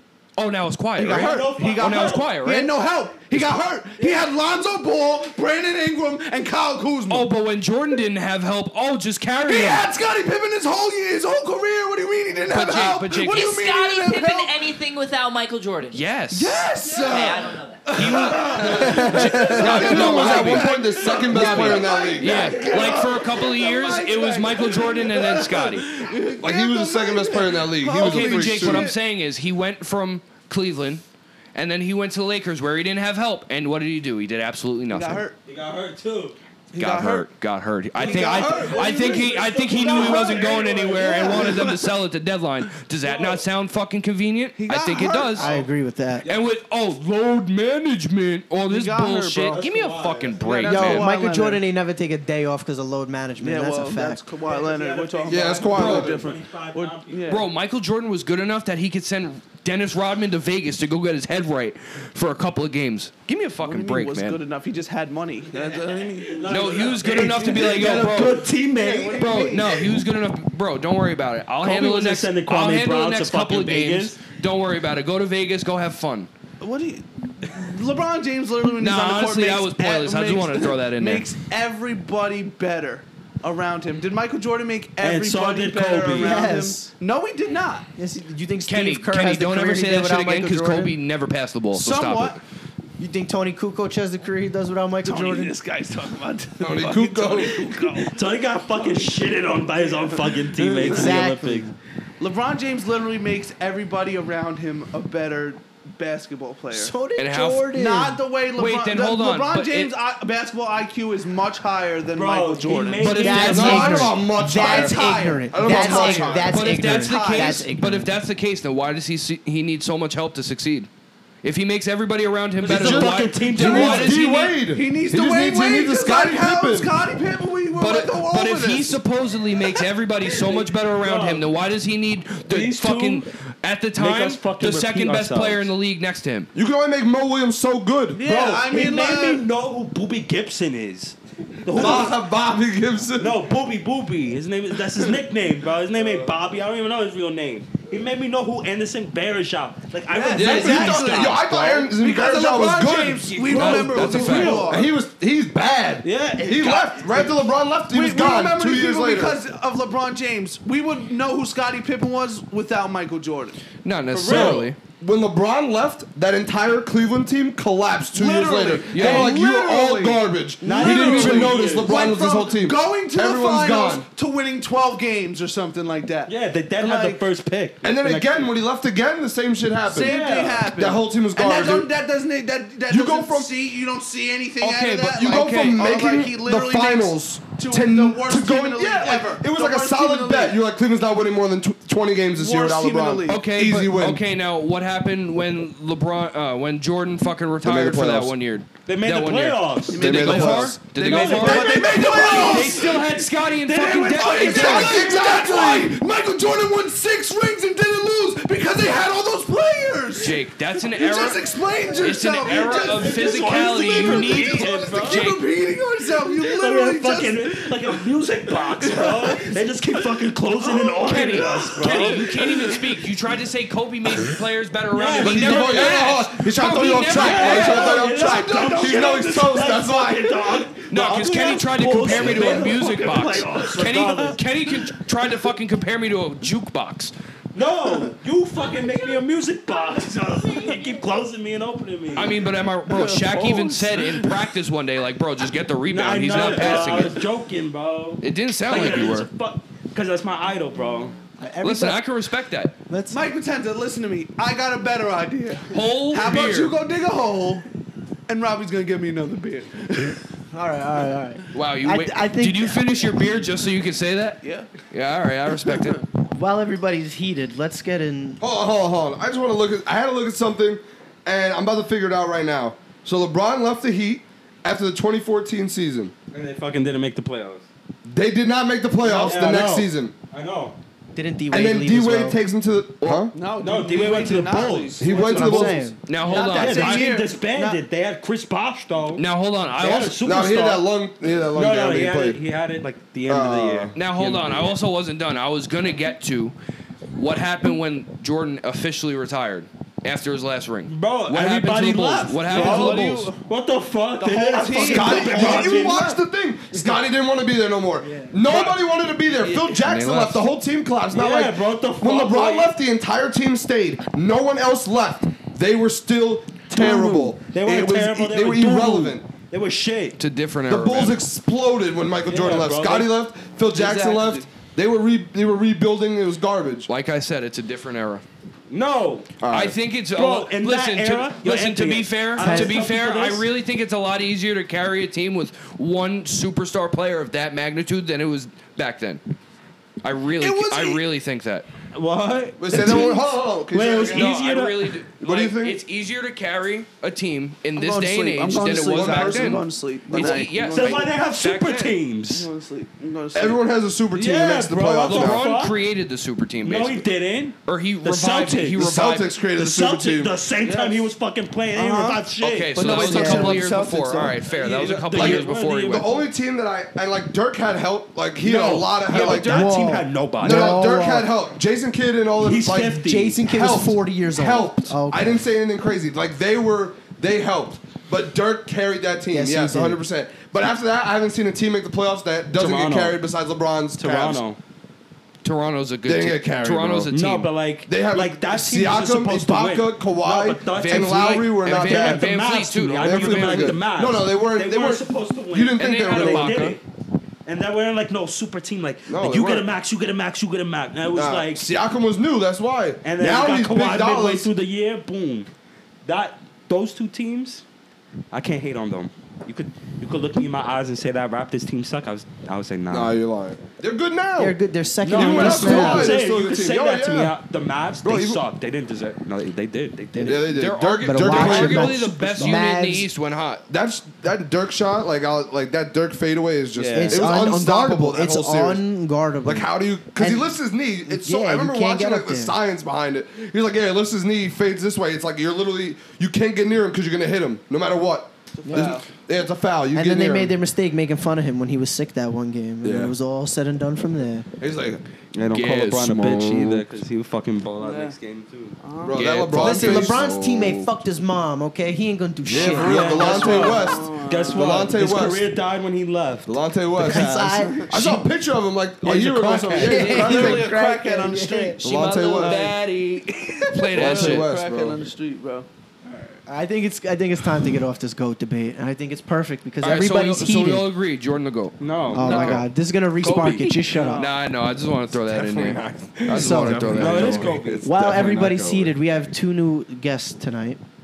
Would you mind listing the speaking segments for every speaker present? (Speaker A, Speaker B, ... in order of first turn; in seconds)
Speaker A: 0.4-2.7, 7.1-9.9, 12.5-13.6, 15.9-16.6, 17.9-20.7, 21.3-25.9, 27.9-31.0, 31.5-35.2, 36.8-45.5, 46.2-51.1, 55.7-56.1, 57.3-64.4, 66.5-68.4, 69.2-76.3, 78.8-81.3, 88.7-92.4, 107.2-107.7, 108.5-109.9, 113.0-114.0, 116.5-120.9, 121.4-124.6, 127.7-136.5, 153.5-154.7, 163.8-164.8, 168.9-169.3, 184.6-185.8, 193.3-205.4, 210.2-211.4, 212.0-215.4, 221.0-228.0, 230.9-237.1, 242.1-247.2, 248.2-249.3, 251.6-252.7, 255.7-256.8, 261.5-266.0, 283.0-283.3, 286.1-287.1, 289.1-290.4, 293.9-296.5, 297.1-303.3, 309.7-310.4, 320.2-321.2, 326.9-328.2, 329.5-339.2, 340.0-341.7, 344.0-351.9, 355.0-357.1, 357.6-359.3, 362.4-366.1, 385.4-387.5, 390.7-393.8, 395.8-396.8, 420.4-423.6, 445.5-446.9, 449.1-450.2, 463.7-464.5, 469.8-472.6, 473.2-473.6, 474.1-477.7
Speaker B: 1.0-7.3, 9.4-14.6, 16.3-28.9, 34.9-35.4, 36.7-37.3, 38.0-41.9, 44.6-45.6, 48.7-49.6, 50.4-51.6, 53.4-57.4, 63.6-70.0, 76.6-87.9, 91.7-92.4, 95.0-99.1, 99.7-101.2, 102.2-106.9, 107.7-113.3, 114.5-117.7, 124.7-129.0, 138.1-139.4, 150.1-154.9, 157.9-163.6, 164.3-164.5, 168.1-177.2, 179.8-190.6, 192.3-193.4, 199.9-203.2, 203.8-222.9, 227.3-229.8, 232.1-232.9, 242.9-244.3, 246.3-247.1, 253.1-257.6, 258.3-260.2, 264.4-264.7, 265.7-266.0, 283.3-287.8, 302.4-303.4, 304.2-306.2, 323.7-324.5, 340.4-341.0, 347.8-351.1, 352.3-353.6, 360.6-361.1, 361.7-364.5, 438.6-439.1, 447.8-448.2, 448.8-449.2, 452.8-454.7, 457.2-457.9, 459.8-462.7, 463.9-465.7, 472.3-472.6, 473.9-474.3
Speaker C: 1.0-2.3, 4.0-4.3, 18.3-18.7, 22.3-23.1, 35.5-36.4, 38.0-41.6, 49.5-50.8, 54.4-57.4, 65.5-69.6, 71.6-74.2, 85.0-86.5, 98.0-101.7, 112.1-114.1, 122.6-124.2, 131.0-131.4, 132.5-133.2, 133.9-135.7, 138.2-142.2, 143.2-151.4, 153.5-154.8, 156.0-157.3, 164.1-164.6, 170.6-172.0, 176.3-178.5, 180.0-180.6, 198.8-204.9, 212.7-215.3, 216.3-222.4, 224.9-226.1, 227.1-234.4, 237.5-242.4, 245.9-251.1, 276.3-277.7, 279.1-280.8, 283.4-285.3, 286.2-290.8, 291.5-294.7, 300.9-306.1, 308.2-308.6, 311.1-312.7, 316.7-320.2, 322.3-323.1, 328.7-329.4, 330.1-333.5, 341.9-345.0, 350.6-352.5, 354.1-355.8, 356.6-358.9, 359.6-363.6, 364.5-366.2, 368.4-370.8, 372.4-373.4, 382.5-383.2, 384.0-384.6, 387.1-396.8, 397.4-401.6, 403.0-405.5, 406.0-407.6, 408.3-413.1, 415.0-420.5, 426.8-427.3, 445.3-448.8, 452.6-456.6, 462.3-463.2, 471.8-472.6, 473.2-473.7, 476.9-478.0
Speaker D: 13.3-16.0, 17.0-17.9
Speaker E: 18.5-22.6, 26.4-28.9, 55.3-56.3, 96.6-97.7, 113.3-116.6, 122.7-126.9, 136.5-138.2, 141.7-143.4, 150.3-159.4, 164.2-174.1, 177.8-181.9, 182.9-183.5, 185.1-194.2, 197.6-198.3, 200.0-200.9, 204.4-206.0, 225.2-230.6, 268.4-276.1, 278.1-280.1, 281.5-283.4, 285.0-285.9, 290.1-292.4, 293.2-294.0, 302.6-302.9, 304.8-319.3, 320.7-326.9, 329.4-329.8, 342.6-344.5, 345.2-345.8, 348.7-350.5, 353.3-355.5, 358.8-360.4, 364.6-369.7, 370.4-384.4, 386.1-387.1, 387.8-392.3, 392.9-396.8, 399.1-399.7, 401.1-404.5, 412.9-414.6, 415.1-417.3, 418.0-418.4, 420.2-422.1, 423.7-428.8, 429.4-440.5, 442.8-443.1, 444.6-445.0, 449.0-450.9, 452.4-455.4, 456.4-460.7, 461.8-462.6, 463.9-465.0, 475.2-478.8
Speaker F: 45.4-46.2, 50.6-54.2, 86.2-86.9, 88.0-90.9, 93.0-95.5, 100.8-101.7, 106.7-108.2, 113.0-118.1, 251.4-252.0, 252.9-253.2, 260.5-262.8, 266.3-268.4, 281.1-282.4, 285.3-286.0, 332.4-332.8, 362.9-363.6, 369.1-371.3, 373.0-375.4, 379.3-380.0, 414.4-416.2, 420.1-420.5, 421.0-423.1, 426.9-430.5, 431.1-432.6, 438.6-439.0, 439.9-444.5, 449.5-453.5, 457.0-458.2, 459.0-461.8, 466.4-470.9, 472.1-474.3, 476.3-477.0, 477.8-480.8